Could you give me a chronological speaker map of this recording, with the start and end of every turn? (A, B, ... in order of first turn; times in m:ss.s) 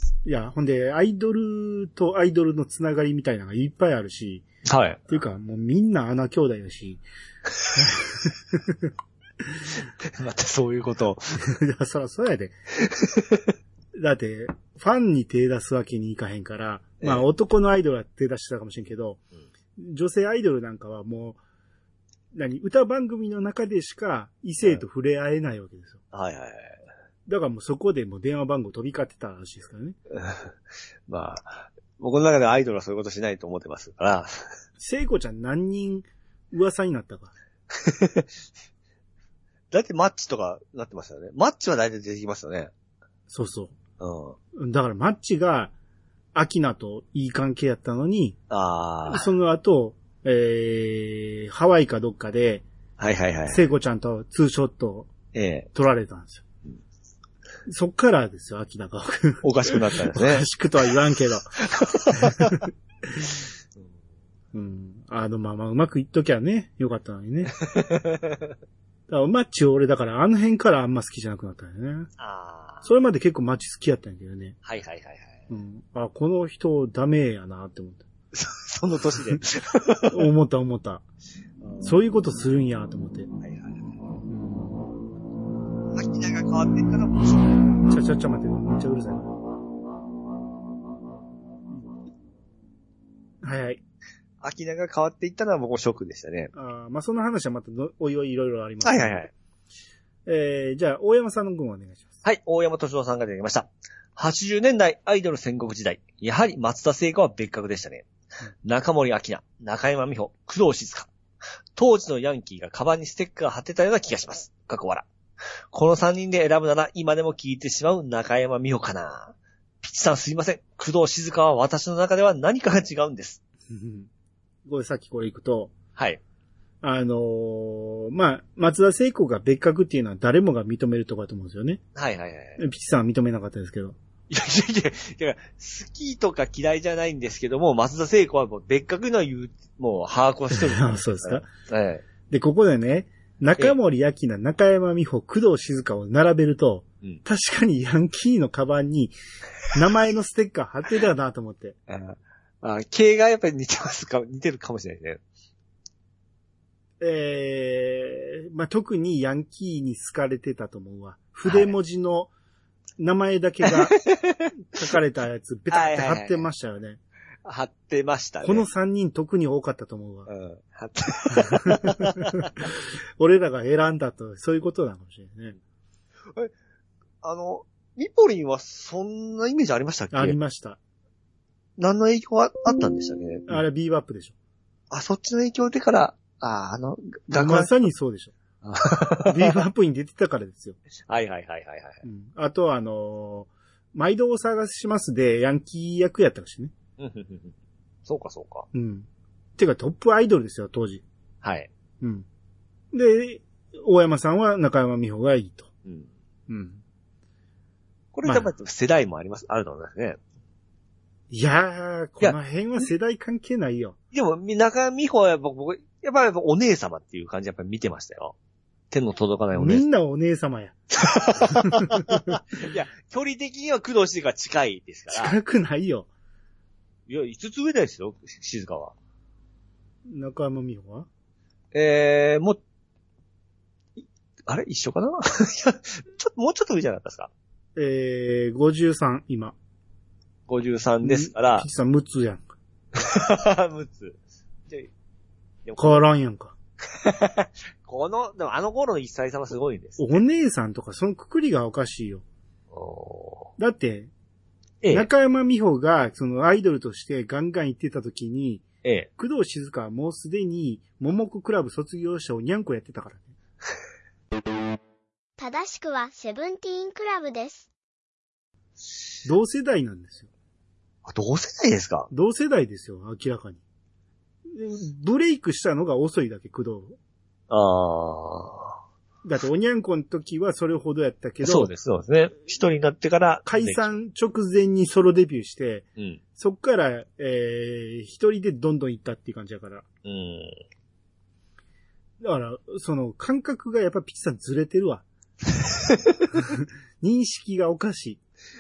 0:00.2-0:04.4 A
0:04.6-0:05.0 B
0:05.1-0:07.0 A
0:07.7-0:08.9 A
0:10.0-0:11.4 B
0:11.4-0:12.5 A
0:12.8-0:13.5 B
0:14.0-0:19.2 A
0:19.8-0:21.4 A
0:22.3-0:26.0 A
0:26.1-0:26.8 B
0:27.3-0:30.0 A
0:30.1-0:30.5 B
0:31.1-0:34.5 B
0:34.8-0:37.3 A
0:37.7-0:38.3 B
0:39.7-0:42.7 B
0:43.3-0:43.8 A
0:44.0-0:44.4 B
0:44.6-0:45.7 A
0:46.3-0:48.4 A
0:48.5-0:49.3 B
0:49.1-0:52.6 A
0:53.0-0:53.7 B
0:53.5-0:55.1 A
0:55.3-0:55.7 B
0:55.7-0:56.4 A
0:57.7-1:01.6 A
0:59.4-1:00.5 B
1:01.6-1:02.6 B
1:02.1-1:03.4 A
1:04.5-1:07.6 A
1:07.6-1:08.6 B
1:09.1-1:12.1 A
1:12.2-1:12.9 B
1:12.8-1:14.6 A
1:14.6-1:15.4 B
1:15.5-1:18.1 A
1:18.3-1:20.3 B
1:20.1-1:21.0 A
1:21.6-1:21.9 B
1:21.8-1:23.3 A
1:23.4-1:24.1 B
1:24.3-1:24.9 A
1:25.9-1:27.8 B
1:27.8-1:29.3 A
1:33.4-1:33.8 A
1:34.4-1:36.5 B
1:36.5-1:39.2 A
1:38.8-1:39.3 B
1:40.3-1:42.2 A
1:42.2-1:48.1 B
1:48.6-1:51.1 B
1:51.8-1:55.1 B
1:55.7-2:03.4 B
2:03.7-2:04.1 A
2:04.7-2:05.7 A
2:06.0-2:06.2 B
2:06.8-2:11.8 A
2:12.0-2:12.6 B
2:12.6-2:14.0 A
2:14.3-2:22.0 B
2:20.5-2:21.5 A
2:22.3-2:29.2 A
2:29.7-2:31.8 A
2:31.9-2:35.2 B
2:37.0-2:42.3 A
2:41.4-2:41.7 B
2:43.0-2:44.0 A
2:43.7-2:44.5 B
2:44.7-2:47.0 A
2:45.7-2:46.5 B
2:47.4-2:48.7 B
2:48.4-2:50.3 A
2:50.3-2:52.5 B
2:51.4-2:55.6 A
2:57.2-3:00.4 B
3:00.1-3:00.8 A
3:01.8-3:03.6 B
3:03.5-3:04.4 A
3:04.9-3:07.7 B
3:07.3-3:08.4 A
3:08.6-3:09.6 B
3:09.2-3:10.8 A
3:11.1-3:12.0 B
3:12.0-3:16.7 A
3:17.0-3:17.5 B
3:18.1-3:18.7 B
3:18.7-3:21.0 A
3:21.4-3:21.7 B
3:22.0-3:22.3 A
3:22.9-3:25.7 A
3:26.5-3:26.8 A
3:28.1-3:30.2 B
3:28.2-3:28.5 A
3:31.3-3:34.0 A
3:34.1-3:38.4 B
3:38.9-3:39.8 B
3:39.6-3:40.8 A
3:40.9-3:45.4 B
3:41.4-3:42.4 A
3:45.1-3:46.1 A
3:47.1-3:48.9 B
3:50.1-3:51.1 A
3:51.7-3:52.6 B
3:54.5-3:57.3 B
3:57.8-3:59.6 A
4:00.5-4:01.7 B
4:01.0-4:02.5 A
4:02.9-4:04.9 B
4:05.6-4:06.0 B
4:05.8-4:06.5 A
4:06.8-4:10.2 B
4:10.0-4:12.2 A
4:12.7-4:13.5 B
4:13.6-4:14.1 A
4:14.8-4:15.1 B
4:14.9-4:18.7 A
4:18.8-4:19.1 B
4:19.2-4:23.3 A
4:25.4-4:27.7 C
4:29.2-4:30.3 A
4:31.0-4:32.1 B
4:32.1-4:33.6 A
4:34.5-4:37.0 A
4:37.5-4:38.8 B
4:39.2-4:41.7 A
4:41.4-4:43.9 B
4:43.5-4:49.8 A
4:50.0-4:50.6 B
4:52.2-4:55.0 A
4:55.6-4:56.2 B
4:56.4-4:58.2 A